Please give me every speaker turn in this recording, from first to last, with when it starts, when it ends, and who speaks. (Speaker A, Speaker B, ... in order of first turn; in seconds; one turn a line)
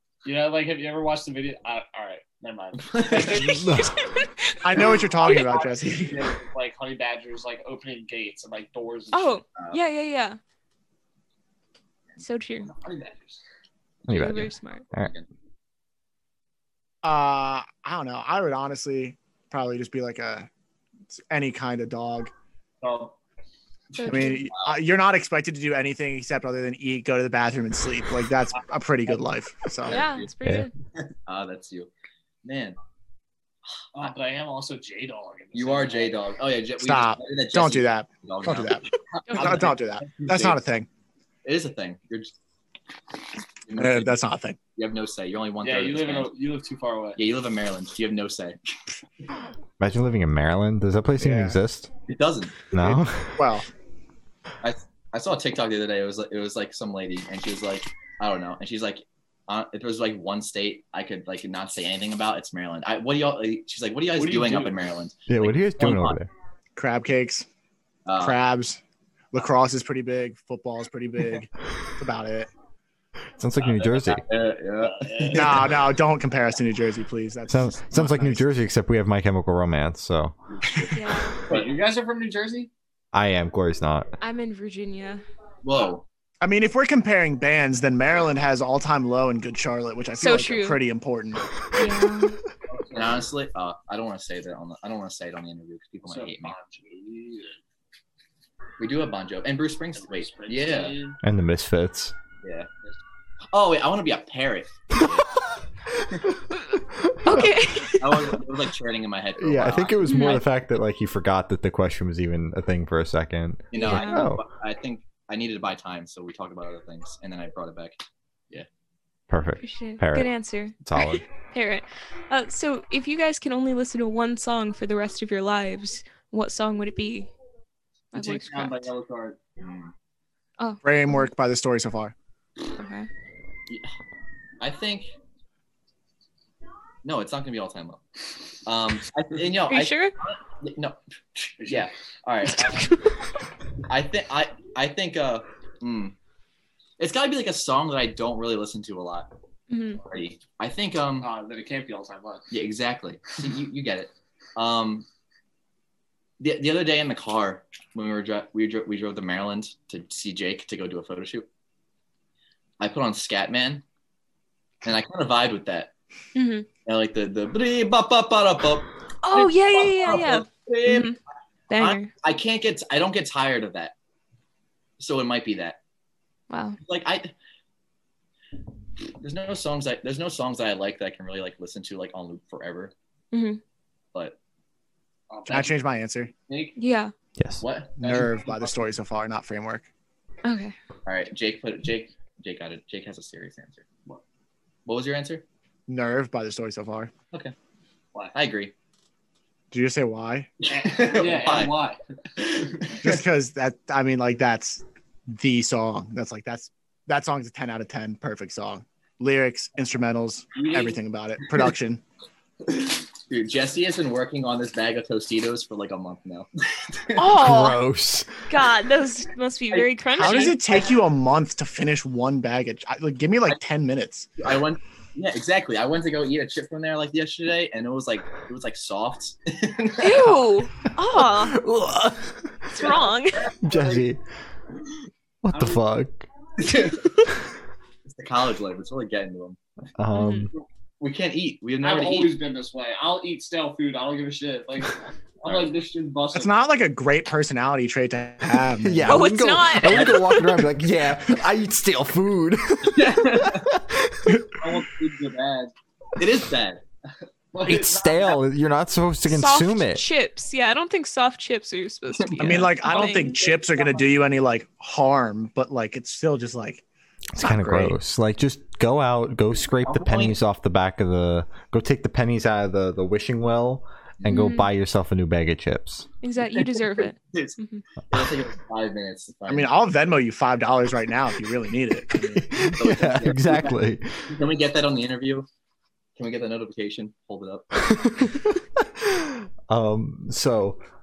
Speaker A: 0.2-3.9
Speaker B: 2.8-3.6
Speaker C: 3.5-3.9
Speaker D: 3.7-5.4
Speaker E: 4.6-6.3
Speaker A: 5.2-9.4
Speaker D: 9.1-10.4
Speaker B: 9.6-9.8
Speaker D: 12.2-12.7
Speaker A: 12.7-13.4
Speaker C: 14.1-15.1
Speaker D: 14.1-14.8
Speaker B: 14.9-15.3
Speaker E: 17.0-20.5
Speaker E: 21.3-22.3
Speaker A: 22.8-23.2
Speaker D: 23.9-24.5
Speaker E: 24.0-30.0
Speaker B: 24.3-24.7
Speaker B: 29.9-30.3
Speaker D: 29.9-30.7
Speaker C: 30.4-30.7
Speaker B: 31.0-31.9
Speaker B: 32.4-32.8
Speaker B: 33.7-34.1
Speaker A: 34.0-36.2
Speaker B: 35.5-40.6
Speaker E: 36.8-40.9
Speaker A: 39.1-39.8
Speaker D: 39.3-39.6
Speaker B: 41.4-42.4
Speaker B: 43.7-44.2
Speaker E: 43.8-44.6
Speaker B: 44.8-46.3
Speaker A: 45.6-47.2
Speaker B: 47.2-48.6
Speaker C: 49.8-51.9
Speaker E: 51.2-51.6
Speaker B: 52.1-52.6
Speaker C: 52.7-53.5
Speaker E: 52.8-53.7
Speaker B: 54.6-66.2
Speaker A: 64.2-64.8
Speaker C: 65.3-66.3
Speaker E: 66.8-67.5
Speaker B: 68.1-68.4
Speaker E: 68.2-68.8
Speaker E: 69.3-72.5
Speaker C: 73.4-74.2
Speaker B: 73.8-75.8
Speaker A: 74.8-75.7
Speaker E: 75.3-78.5
Speaker C: 77.5-80.4
Speaker B: 80.6-81.7
Speaker D: 80.9-81.5
Speaker A: 81.4-82.7
Speaker C: 83.1-84.1
Speaker D: 84.2-85.2
Speaker B: 85.6-86.0
Speaker E: 86.4-91.5
Speaker D: 90.2-90.8
Speaker D: 91.7-92.4
Speaker A: 92.7-93.2
Speaker B: 92.9-96.5
Speaker A: 96.1-97.6
Speaker B: 98.8-101.0
Speaker A: 100.0-101.2
Speaker C: 101.2-102.1
Speaker B: 102.4-102.7
Speaker B: 103.5-105.3
Speaker C: 106.9-107.6
Speaker D: 107.2-108.4
Speaker B: 107.9-110.4
Speaker C: 109.4-114.4
Speaker D: 110.1-110.4
Speaker B: 113.7-118.0
Speaker D: 113.7-114.2
Speaker C: 119.3-121.2
Speaker D: 119.6-127.3
Speaker D: 128.1-128.9
Speaker A: 128.1-129.4
Speaker B: 129.6-129.9
Speaker D: 130.6-131.3
Speaker E: 130.8-132.1
Speaker D: 132.6-133.1
Speaker B: 134.6-135.1
Speaker B: 137.0-138.0
Speaker B: 138.7-142.9
Speaker D: 139.7-140.1
Speaker A: 141.6-141.9
Speaker D: 142.5-143.2
Speaker B: 143.8-146.2
Speaker B: 147.0-149.3
Speaker D: 149.7-150.0
Speaker B: 150.0-151.3
Speaker A: 151.2-152.5
Speaker B: 152.5-155.1
Speaker B: 156.4-161.5
Speaker B: 162.8-163.8
Speaker B: 164.8-165.9
Speaker D: 166.3-166.7
Speaker B: 166.8-171.2
Speaker D: 169.2-171.2
Speaker D: 171.7-172.1
Speaker B: 171.7-173.9
Speaker B: 175.0-175.8
Speaker D: 176.5-176.8
Speaker B: 176.8-177.3
Speaker B: 179.2-182.9
Speaker D: 183.3-183.6
Speaker A: 185.3-185.8
Speaker E: 185.5-186.3
Speaker A: 186.5-186.8
Speaker D: 186.8-187.1
Speaker C: 187.4-187.6
Speaker B: 187.6-188.0
Speaker A: 188.0-188.9
Speaker E: 188.0-189.9
Speaker D: 190.4-190.8
Speaker B: 191.1-193.9
Speaker B: 194.9-195.4
Speaker E: 195.9-197.1
Speaker B: 198.3-198.7
Speaker E: 199.7-200.5
Speaker B: 200.7-201.8
Speaker A: 200.7-202.0
Speaker B: 202.4-203.2
Speaker E: 203.0-212.0
Speaker A: 210.6-211.0
Speaker B: 212.7-217.4
Speaker D: 217.2-217.8
Speaker C: 217.4-218.4
Speaker D: 218.5-220.6
Speaker B: 219.7-220.9
Speaker E: 220.2-224.3
Speaker B: 224.4-230.5
Speaker D: 230.0-231.6
Speaker C: 231.2-232.8
Speaker D: 232.7-233.6
Speaker C: 233.6-234.2
Speaker A: 233.7-234.1
Speaker C: 235.4-236.3
Speaker A: 235.5-235.8
Speaker B: 238.0-239.6
Speaker C: 240.0-240.5
Speaker D: 240.1-240.5
Speaker B: 241.0-242.4
Speaker A: 241.8-246.6
Speaker B: 245.4-245.7
Speaker E: 246.3-249.3
Speaker C: 248.8-254.4
Speaker D: 249.1-250.7
Speaker B: 249.9-250.2
Speaker B: 252.9-253.8
Speaker A: 254.5-255.7
Speaker B: 256.2-256.8
Speaker A: 257.5-258.4
Speaker C: 257.6-260.0
Speaker D: 259.2-263.4
Speaker B: 262.2-262.7
Speaker E: 262.4-266.8
Speaker A: 262.9-264.0
Speaker C: 267.4-276.1
Speaker B: 267.4-267.9
Speaker B: 269.9-270.4
Speaker B: 274.2-274.5
Speaker D: 274.3-274.7
Speaker D: 276.2-277.8
Speaker B: 276.5-279.7
Speaker E: 279.5-282.8
Speaker C: 282.4-284.3
Speaker B: 282.8-285.5
Speaker B: 286.2-288.0
Speaker C: 287.8-290.8